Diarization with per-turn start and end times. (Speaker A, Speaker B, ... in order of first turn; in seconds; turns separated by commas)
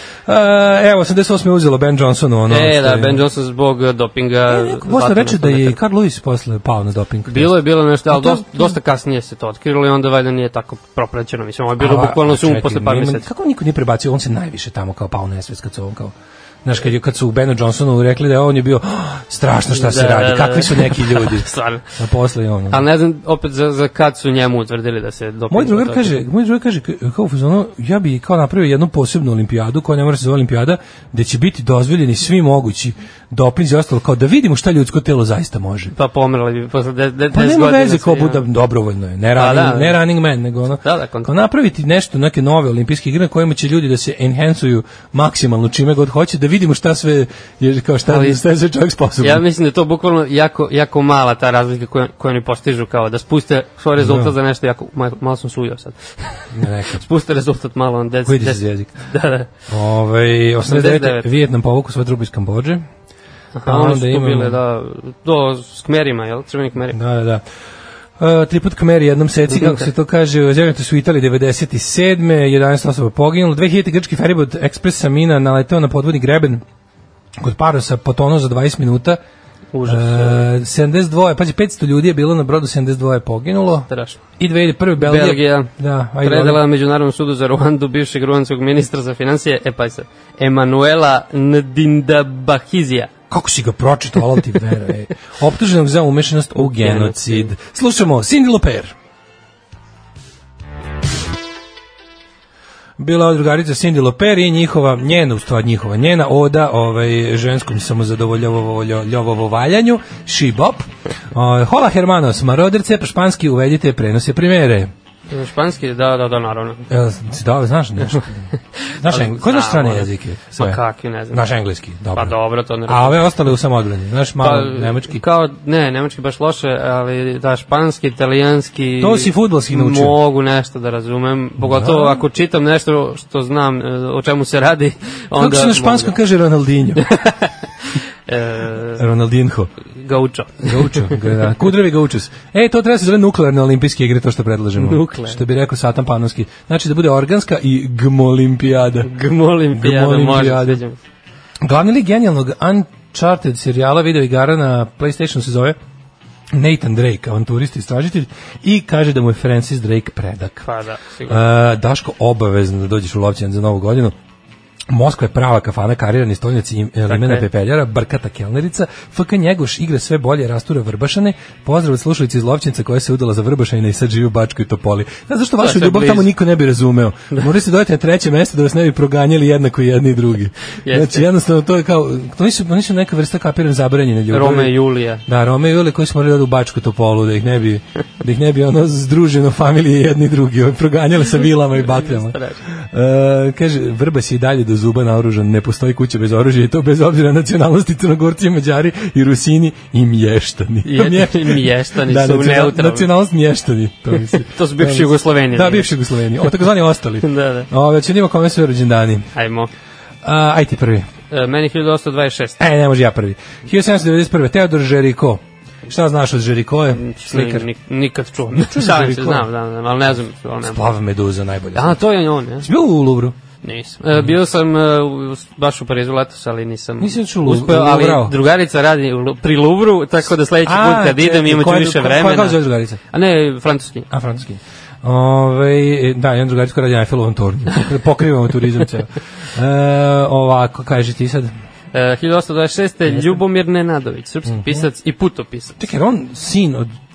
Speaker A: 0.2-3.2, Speaker B: 2.5-5.8, Speaker A: 4.5-8.8, Speaker B: 7.3-13.3, Speaker A: 11.8-22.9, Speaker B: 19.7-21.8, Speaker B: 22.7-26.2, Speaker A: 25.5-35.9, Speaker B: 35.9-38.4, Speaker A: 37.3-49.4, Speaker B: 39.4-40.0, Speaker B: 40.8-41.3, Speaker B: 48.1-48.4, Speaker B: 49.2-59.5, Speaker A: 54.0-54.3, Speaker A: 56.5-57.0, Speaker A: 58.2-59.0, Speaker A: 59.7-62.9, Speaker B: 60.6-61.3, Speaker B: 63.5-67.0, Speaker A: 63.6-64.6, Speaker A: 66.9-67.4, Speaker A: 68.2-76.6, Speaker B: 69.5-69.8, Speaker A: 77.4-79.2, Speaker B: 79.7-80.5, Speaker A: 79.8-83.9, Speaker B: 83.9-84.2, Speaker A: 84.4-86.6, Speaker B: 85.0-93.1, Speaker A: 93.3-98.9, Speaker B: 96.6-97.5, Speaker A: 103.0-114.9, Speaker B: 115.3-116.9, Speaker A: 116.9-118.5, Speaker B: 118.8-121.4, Speaker A: 119.0-125.2, Speaker B: 122.1-123.2, Speaker B: 124.4-136.1, Speaker A: 129.0-130.2, Speaker A: 131.6-132.2, Speaker A: 135.3-137.1, Speaker B: 137.1-139.0, Speaker A: 138.9-139.7, Speaker B: 139.9-141.5, Speaker A: 140.6-149.1, Speaker B: 144.8-145.4, Speaker B: 149.0-151.0, Speaker A: 149.7-150.8, Speaker A: 151.6-155.8, Speaker A: 156.5-160.7, Speaker B: 160.6-161.4, Speaker A: 161.3-164.1, Speaker A: 164.9-184.7, Speaker B: 167.1-167.4, Speaker B: 175.6-176.3, Speaker B: 180.8-181.3, Speaker B: 184.3-185.2, Speaker A: 185.2-209.3, Speaker B: 191.8-192.6, Speaker B: 200.8-203.1, Speaker B: 204.4-205.9, Speaker B: 207.2-207.7, Speaker B: 209.3-209.7, Speaker A: 210.2-211.1, Speaker B: 211.3-212.6, Speaker A: 212.6-217.7, Speaker B: 216.9-220.8, Speaker A: 218.5-219.5, Speaker A: 220.6-222.0, Speaker B: 221.7-222.7, Speaker A: 222.6-223.3, Speaker B: 223.6-232.6, Speaker A: 227.0-228.3, Speaker A: 230.6-233.0, Speaker B: 233.1-234.1, Speaker A: 234.1-241.5, Speaker B: 241.9-245.8, Speaker A: 243.1-243.4, Speaker A: 244.4-244.9, Speaker A: 245.8-246.9